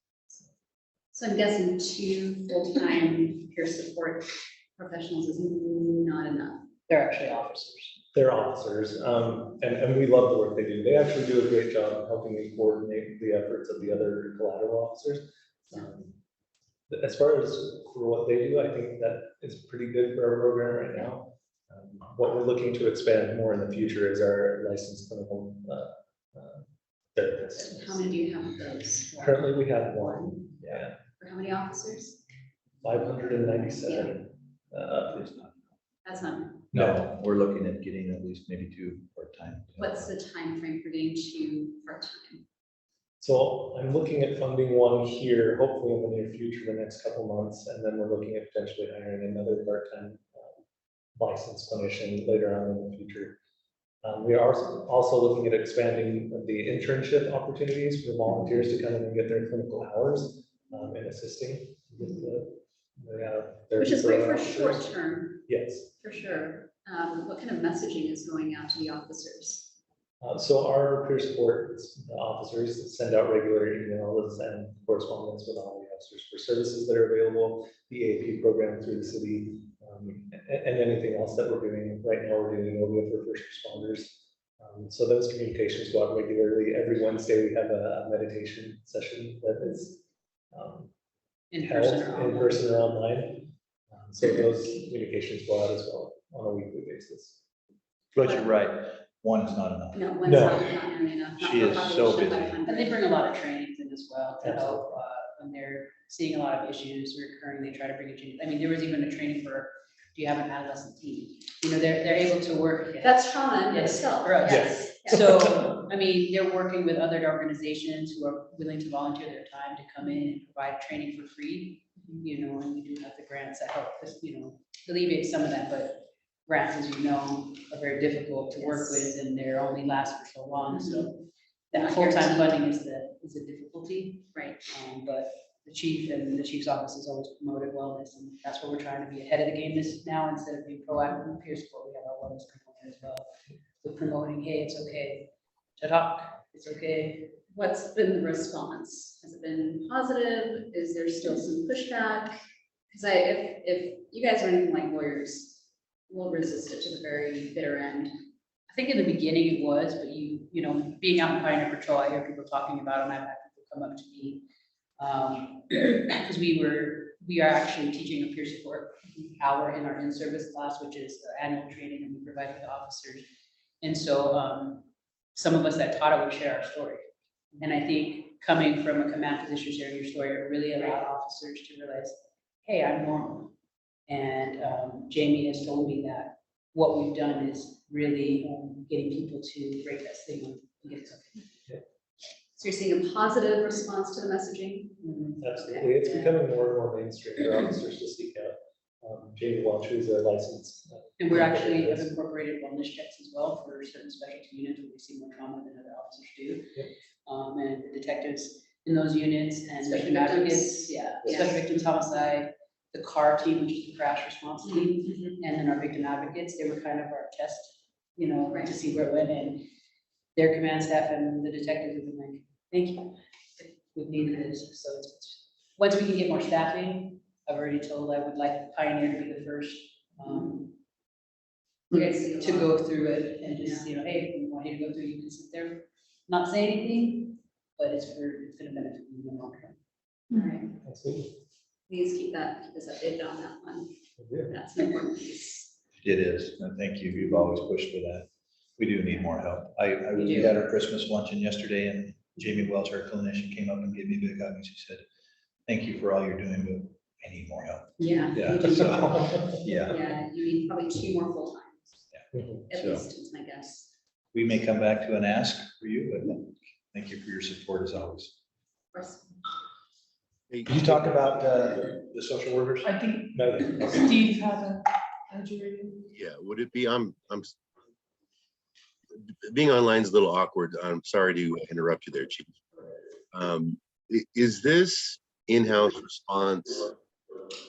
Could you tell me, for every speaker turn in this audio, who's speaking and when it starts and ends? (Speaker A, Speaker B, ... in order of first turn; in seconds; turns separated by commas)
Speaker A: 1.1-6.7, Speaker B: 6.9-8.0, Speaker C: 8.1-16.2, Speaker C: 16.9-28.1, Speaker A: 27.6-29.4, Speaker C: 29.1-31.0, Speaker A: 31.2-32.2, Speaker C: 32.8-35.5, Speaker A: 36.0-36.6, Speaker C: 36.7-37.0, Speaker D: 36.7-40.1, Speaker A: 39.8-42.4, Speaker C: 43.2-50.6, Speaker C: 51.2-53.4, Speaker C: 54.0-64.9, Speaker A: 63.8-65.5, Speaker C: 65.5-65.9, Speaker A: 66.0-69.7, Speaker C: 70.2-90.0, Speaker C: 90.5-90.9, Speaker B: 91.5-92.6, Speaker C: 91.6-97.4, Speaker D: 98.1-100.5, Speaker A: 99.9-103.0, Speaker C: 100.2-100.7, Speaker D: 101.4-102.6, Speaker B: 102.7-143.3, Speaker C: 104.4-104.9, Speaker A: 113.0-115.3, Speaker C: 114.5-115.8, Speaker A: 128.6-129.1, Speaker A: 131.7-132.5, Speaker A: 134.3-134.6, Speaker B: 143.8-147.4, Speaker A: 147.5-152.4, Speaker A: 152.9-158.1, Speaker B: 158.7-164.4, Speaker B: 165.0-173.2, Speaker B: 173.8-177.1, Speaker B: 177.6-183.5, Speaker B: 184.1-191.4, Speaker A: 192.6-195.0, Speaker B: 195.0-195.4, Speaker C: 195.4-202.1, Speaker A: 195.6-196.4, Speaker B: 201.2-206.8, Speaker B: 207.3-219.7, Speaker A: 209.8-211.6, Speaker A: 214.7-215.3, Speaker B: 220.3-230.8, Speaker A: 231.9-232.8, Speaker B: 231.9-239.8, Speaker A: 233.5-233.9, Speaker A: 240.3-240.8, Speaker C: 240.8-241.3, Speaker A: 241.9-243.9, Speaker C: 244.2-244.6, Speaker A: 244.5-245.7, Speaker D: 246.0-255.0, Speaker B: 250.2-250.5, Speaker D: 255.7-260.0, Speaker A: 258.0-259.0, Speaker C: 258.8-259.6, Speaker A: 259.8-262.1, Speaker D: 262.1-263.0, Speaker C: 262.3-262.6, Speaker A: 262.7-263.9, Speaker D: 264.3-268.4, Speaker A: 268.9-269.4, Speaker E: 270.5-271.5, Speaker D: 270.7-272.9, Speaker F: 272.8-276.1, Speaker C: 273.3-274.1, Speaker E: 276.1-277.5, Speaker E: 279.1-282.5, Speaker E: 283.3-286.9